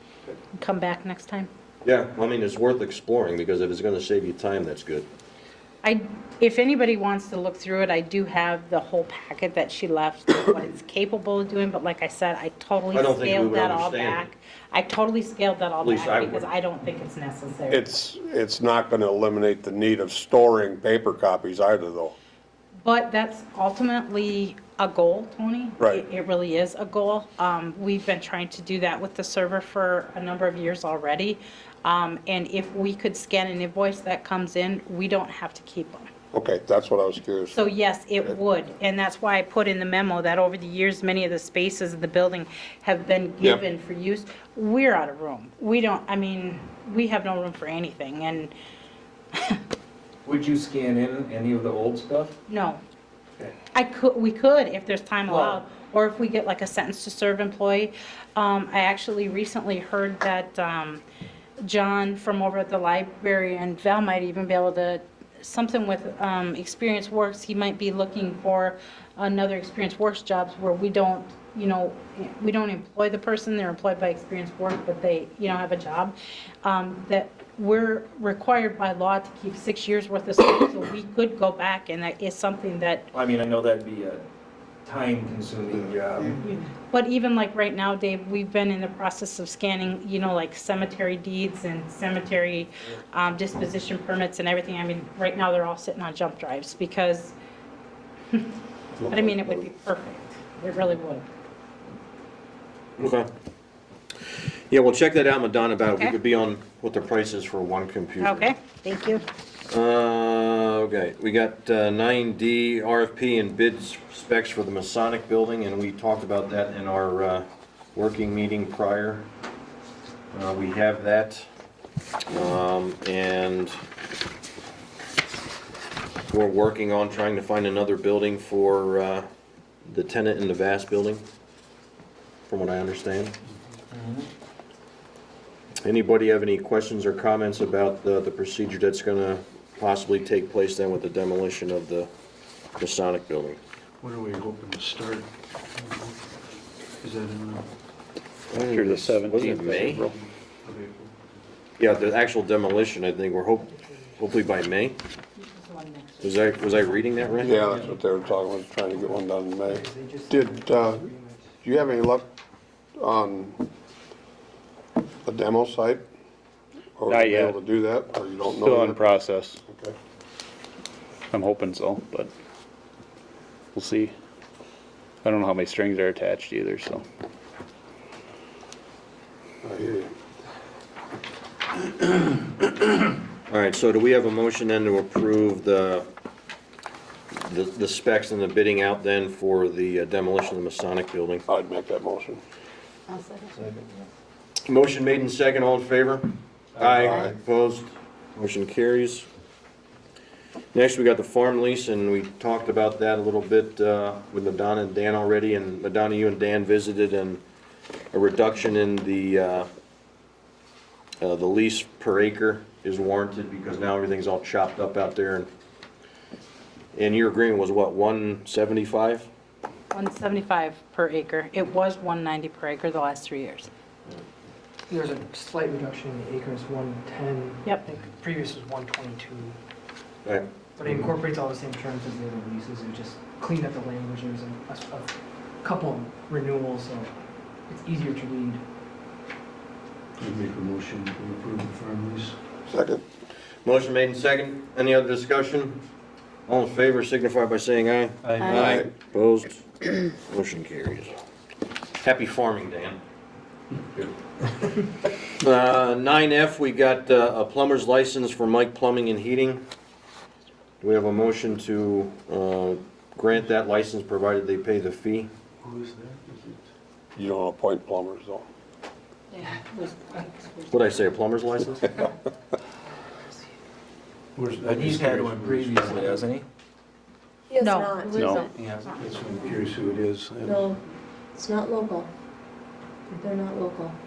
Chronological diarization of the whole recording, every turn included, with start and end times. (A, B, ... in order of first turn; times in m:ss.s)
0:00.5-0:01.5 A
0:01.8-0:05.1 B
0:05.8-0:17.8 A
0:12.9-0:14.3 B
0:15.8-0:16.5 B
0:17.7-0:22.2 C
0:22.8-0:36.1 A
0:36.3-0:37.6 C
0:37.5-0:48.5 A
0:49.3-0:49.6 A
0:50.2-0:52.3 D
0:52.5-0:52.8 A
0:53.7-1:01.0 A
0:55.3-0:55.6 D
1:01.6-1:23.1 A
1:23.1-1:24.2 D
1:24.8-1:26.4 D
1:26.4-1:37.4 A
1:39.0-1:39.7 C
1:39.1-1:41.3 A
1:43.0-1:43.3 B
1:44.7-1:48.4 B
1:48.2-1:49.2 A
1:49.7-1:59.3 B
2:00.3-2:01.5 B
2:02.3-2:03.8 B
2:06.3-2:09.3 B
2:09.9-2:11.2 B
2:12.5-2:13.4 B
2:13.9-2:14.3 D
2:15.8-2:22.1 B
2:22.8-2:23.6 B
2:24.0-2:26.2 E
2:27.0-2:27.7 E
2:28.5-2:30.0 B
2:28.5-2:30.1 F
2:29.9-2:31.4 E
2:31.8-2:35.0 B
2:33.7-2:34.3 G
2:35.4-2:37.0 A
2:36.2-2:37.6 B
2:37.4-2:41.1 C
2:37.6-2:37.9 D
2:39.6-2:41.5 G
2:41.6-2:42.3 C
2:43.0-2:43.6 C
2:45.2-2:46.1 C
2:47.0-2:50.0 C
2:47.1-2:47.6 F
2:48.5-2:49.6 F
2:51.3-2:52.3 F
2:53.7-2:54.1 F
2:55.2-2:57.0 F
2:59.6-3:00.1 C
3:03.5-3:06.1 B
3:07.4-3:11.4 B
3:11.5-3:12.4 C
3:14.7-3:19.3 B
3:16.8-3:17.1 D
3:16.9-3:17.3 C
3:20.7-3:27.4 B
3:28.1-3:29.7 B
3:31.2-3:35.5 B
3:37.0-3:39.3 B
3:39.9-3:43.7 A
3:44.9-3:49.6 G
3:50.2-3:50.5 B
3:50.8-3:57.1 G
3:57.7-3:58.6 G
4:00.2-4:02.4 E
4:02.7-4:03.0 C
4:03.6-4:05.8 B
4:06.5-4:11.2 B
4:08.2-4:08.8 D
4:08.6-4:08.9 C
4:12.0-4:13.0 B
4:15.4-4:19.7 B
4:20.8-4:25.3 B
4:25.6-4:26.7 E
4:27.2-4:28.5 C
4:30.7-4:32.1 B
4:34.4-4:36.2 E
4:34.7-4:36.4 D
4:37.5-4:38.5 H
4:37.6-4:38.0 A
4:38.1-4:38.5 F
4:38.5-4:39.1 D
4:39.0-4:40.8 E
4:40.4-4:40.8 H
4:41.4-4:42.1 H
4:43.2-4:44.0 H